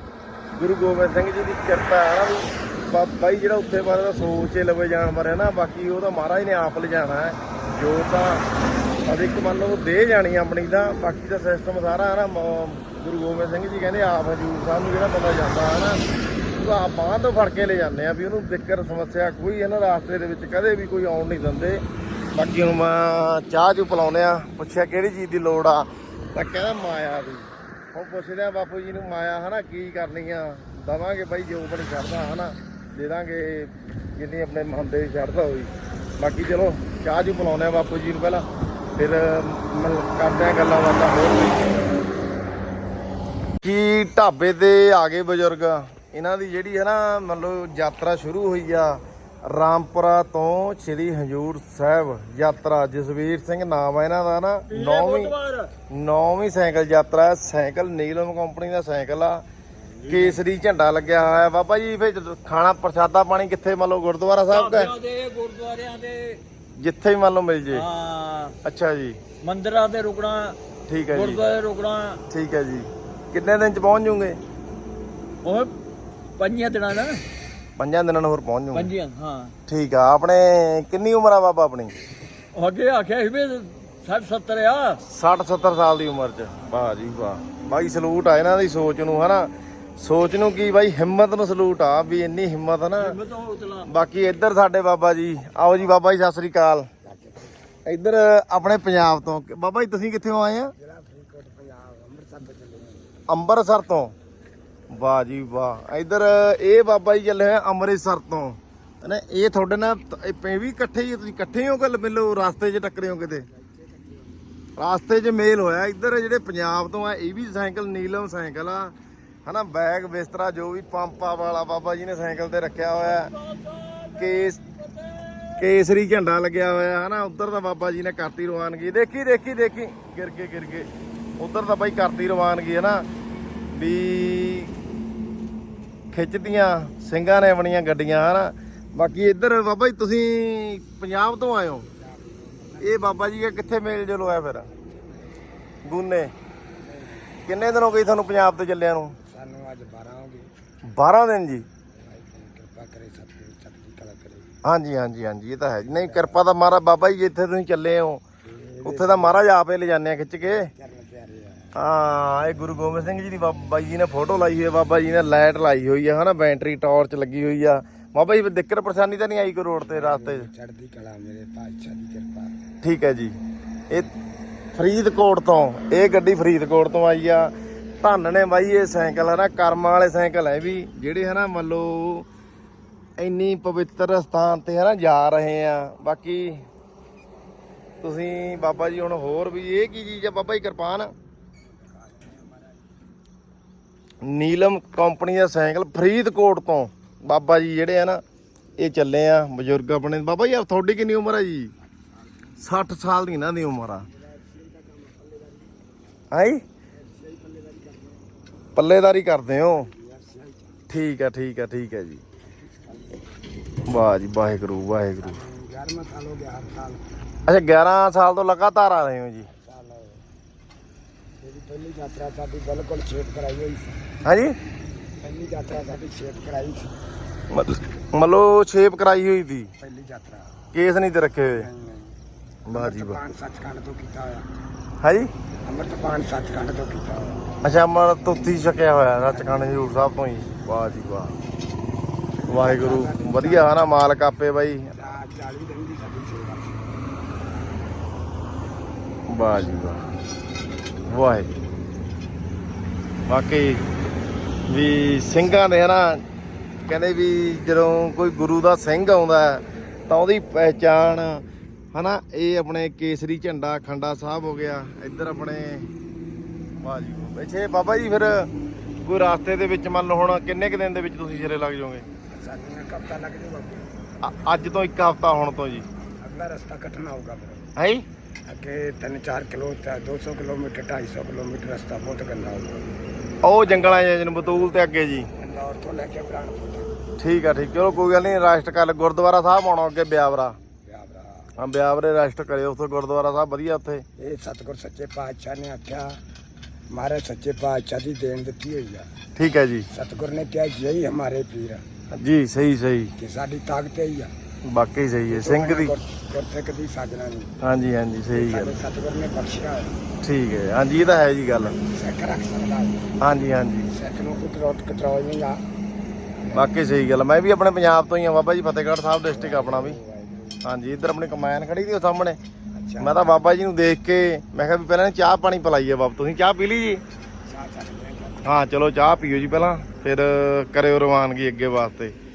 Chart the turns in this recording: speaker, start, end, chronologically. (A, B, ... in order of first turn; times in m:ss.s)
0:00.6-0:08.4 A
0:09.0-0:16.0 A
0:16.6-0:21.8 A
0:22.3-0:38.4 A
0:39.0-0:41.8 A
0:43.6-0:55.4 A
0:54.7-0:55.7 B
0:55.9-0:59.4 A
0:59.9-1:00.4 B
1:00.1-1:04.9 A
1:04.5-1:06.4 B
1:06.8-1:07.9 A
1:07.7-1:08.6 B
1:08.6-1:09.2 A
1:09.4-1:10.6 B
1:10.9-1:11.5 A
1:11.1-1:12.2 B
1:12.3-1:14.4 A
1:15.4-1:15.7 B
1:16.4-1:17.2 B
1:17.8-1:18.9 A
1:18.7-1:19.5 B
1:19.7-1:21.9 A
1:22.5-1:25.0 B
1:25.0-1:33.2 A
1:33.0-1:33.9 B
1:33.8-1:36.9 A
1:37.0-1:37.6 C
1:37.8-1:40.7 A
1:40.8-1:43.2 C
1:43.3-1:44.1 A
1:44.9-1:53.5 A
1:53.3-1:54.5 C
1:54.8-1:58.9 A
1:59.4-2:03.3 A
2:03.2-2:05.6 B
2:04.2-2:04.6 A
2:05.6-2:10.9 A
2:11.4-2:13.0 A
2:13.7-2:14.7 A
2:16.1-2:21.9 A
2:21.9-2:23.7 C
2:22.8-2:24.7 A
2:24.6-2:25.6 C
2:25.8-2:26.3 A
2:26.8-2:27.5 C
2:27.5-2:29.2 A
2:29.2-2:30.5 C
2:30.9-2:31.7 A
2:31.9-2:34.5 C
2:34.6-2:38.2 A
2:35.8-2:36.4 C
2:38.4-2:39.4 C
2:38.8-2:40.7 A
2:40.7-2:41.7 C
2:41.8-2:50.5 A
2:49.8-2:52.6 C
2:52.8-2:53.4 A
2:54.8-3:02.3 A
3:03.2-3:06.6 A
3:08.0-3:11.1 A
3:11.6-3:12.9 C
3:14.2-3:18.2 A
3:18.8-3:21.7 A
3:21.8-3:22.3 C
3:22.6-3:24.1 A
3:24.1-3:25.9 C
3:26.3-3:26.6 A
3:26.9-3:28.3 C
3:28.8-3:29.9 A
3:29.8-3:30.8 C
3:30.9-3:32.2 A
3:32.4-3:33.3 C
3:33.9-3:35.4 A
3:35.2-3:37.1 C
3:37.5-3:39.5 A
3:39.5-3:40.2 C
3:41.4-3:44.0 C
3:44.2-3:44.6 A
3:45.2-3:47.0 C
3:47.5-3:49.7 A
3:49.8-3:50.6 C
3:50.7-3:51.6 A
3:51.6-3:52.2 C
3:52.7-3:53.2 A
3:52.7-3:54.5 C
3:55.0-3:55.3 A
3:55.6-3:57.5 C
3:57.6-4:01.4 A
4:02.4-4:03.8 C
4:02.5-4:04.9 A
4:04.9-4:06.9 C
4:09.3-4:10.0 A
4:11.1-4:11.5 A
4:13.3-4:13.8 A
4:14.7-4:16.2 A
4:16.9-4:25.9 A
4:26.8-4:28.5 A
4:29.0-4:32.0 A
4:32.3-4:33.9 C
4:34.2-4:35.9 A
4:36.2-4:37.7 C
4:37.8-4:38.1 A
4:38.4-4:42.9 C
4:43.4-4:45.3 A
4:45.4-4:46.9 C
4:47.2-4:50.6 A
4:50.8-4:51.5 C
4:51.6-4:54.0 A
4:54.2-4:56.2 C
4:56.9-4:59.1 C
4:59.4-4:59.9 A
4:59.9-5:01.8 C
5:02.1-5:03.1 A
5:03.2-5:04.3 C
5:04.6-5:06.0 A
5:05.3-5:07.5 C
5:07.6-5:08.8 A
5:08.3-5:10.0 C
5:10.2-5:11.8 A
5:11.7-5:13.1 C
5:13.2-5:13.9 A
5:13.9-5:15.6 C
5:16.4-5:16.7 C
5:16.5-5:20.0 A
5:19.3-5:20.6 C
5:20.6-5:22.4 A
5:22.7-5:23.3 C
5:23.0-5:27.0 A
5:27.5-5:28.6 C
5:28.4-5:32.1 A